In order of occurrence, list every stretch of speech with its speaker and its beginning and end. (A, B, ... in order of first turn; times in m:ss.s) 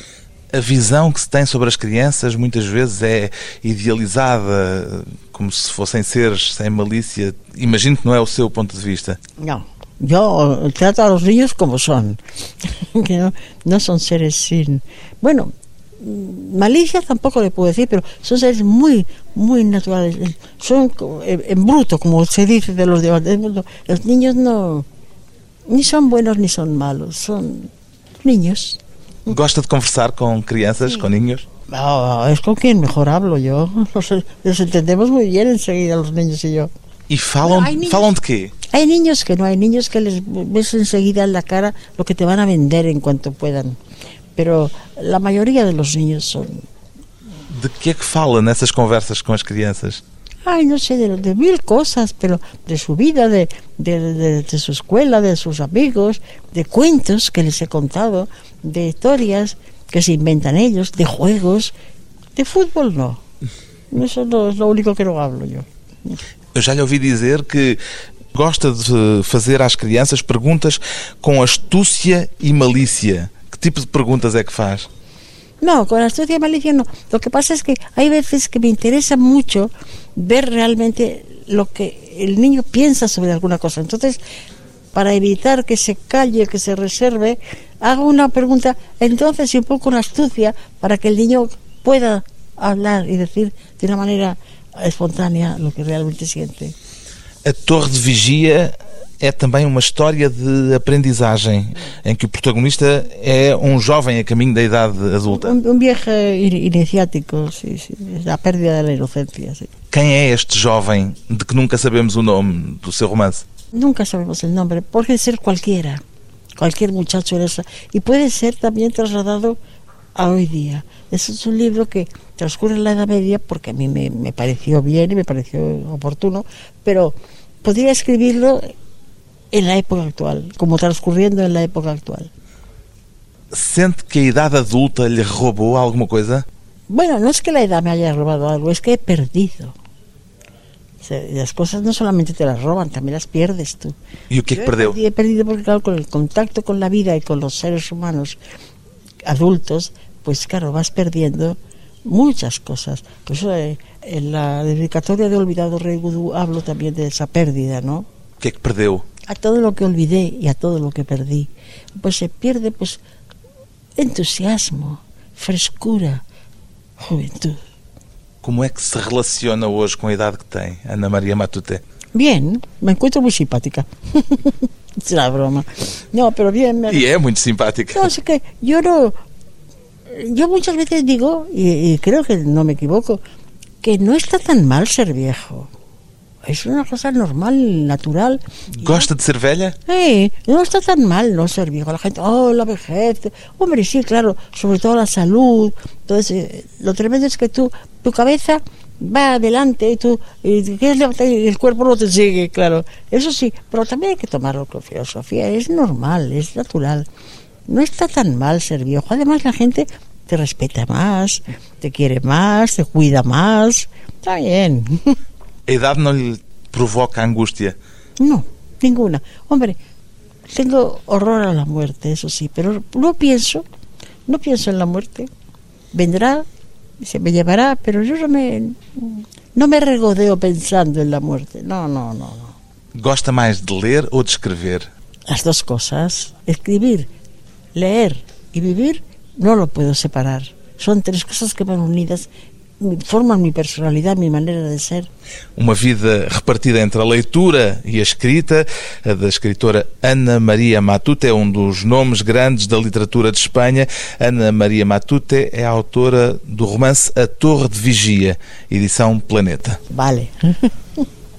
0:00.5-0:09.2 A
0:09.4-0:24.9 B
0:25.7-0:28.8 B
0:29.3-0:31.4 A
0:31.7-0:36.7 B
0:37.1-0:38.6 A
0:37.4-0:38.1 B
0:38.7-0:43.8 B
0:44.4-0:46.7 B
0:47.5-0:50.0 A
0:50.4-1:01.7 B
1:02.4-1:03.2 B
1:03.9-1:06.2 B
1:06.6-1:07.8 A
1:08.3-1:14.9 A
1:15.6-1:24.2 B
1:24.9-1:36.8 B
1:37.4-1:45.6 A
1:45.3-1:49.7 B
1:49.9-1:53.4 A
1:53.7-1:56.0 B
1:56.6-1:59.6 B
2:00.2-2:08.7 B
2:09.5-2:12.3 B
2:13.5-2:16.5 A
2:16.9-2:19.8 B
2:21.0-2:24.0 B
2:24.3-2:25.0 A
2:24.5-2:28.4 B
2:29.3-2:38.1 B
2:38.4-2:39.1 A
2:39.3-2:43.0 B
2:44.0-2:46.2 B
2:47.0-2:47.6 B
2:48.4-2:51.8 A
2:52.1-2:57.1 B
2:56.9-2:58.1 A
2:57.9-2:59.2 B
3:00.1-3:03.2 B
3:03.8-3:05.7 B
3:06.4-3:09.1 B
3:08.8-3:09.8 A
3:09.9-3:27.1 B
3:27.7-3:35.2 B
3:35.7-3:37.8 A
3:38.2-3:39.8 B
3:40.5-3:43.6 B
3:44.3-3:45.3 B
3:45.9-3:46.5 B
3:47.0-3:52.6 B
3:53.0-3:54.9 A
3:55.3-3:57.1 B
3:57.7-4:02.3 B
4:02.8-4:05.1 B
4:05.6-4:19.8 A
4:19.9-4:21.1 B